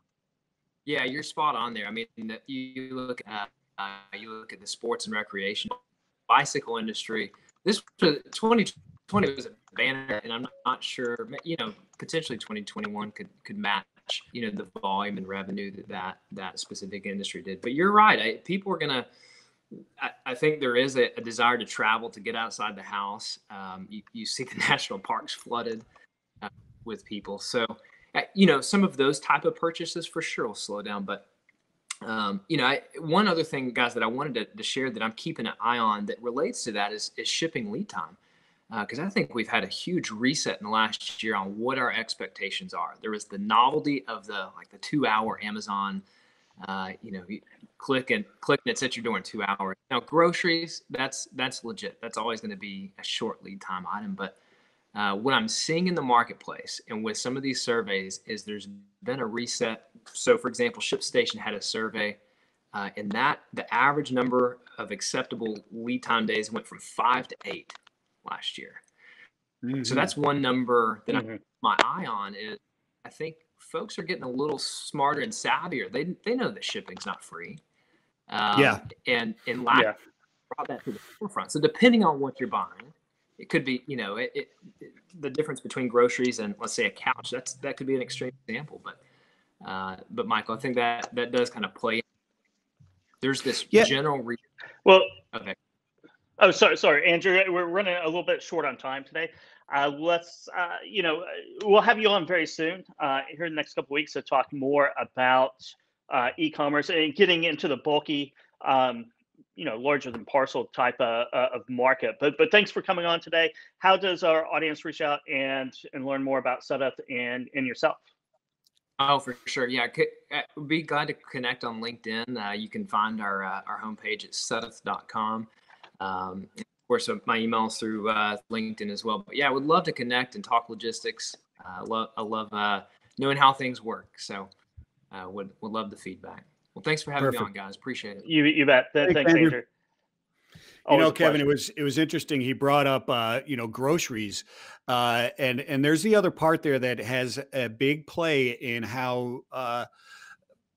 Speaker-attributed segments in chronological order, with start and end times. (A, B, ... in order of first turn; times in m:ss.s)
0:00.8-0:19.1 A
0:19.7-0:25.8 A
0:26.4-0:31.2 A
0:32.0-0:38.2 A
0:38.7-0:46.0 A
0:46.6-0:54.4 A
0:54.9-1:02.2 A
1:02.7-1:08.8 A
1:09.6-1:10.1 B
1:09.8-1:17.6 A
1:18.3-1:20.0 A
1:18.6-1:18.8 B
1:20.5-1:29.0 A
1:29.6-1:32.0 A
1:33.2-1:34.4 A
1:34.8-1:35.2 C
1:36.4-1:58.0 C
1:59.0-2:05.5 A
2:06.0-2:14.5 A
2:15.1-2:18.3 A
2:17.2-2:17.5 B
2:18.2-2:19.6 C
2:19.0-2:19.6 B
2:20.9-2:21.4 C
2:20.9-2:29.9 B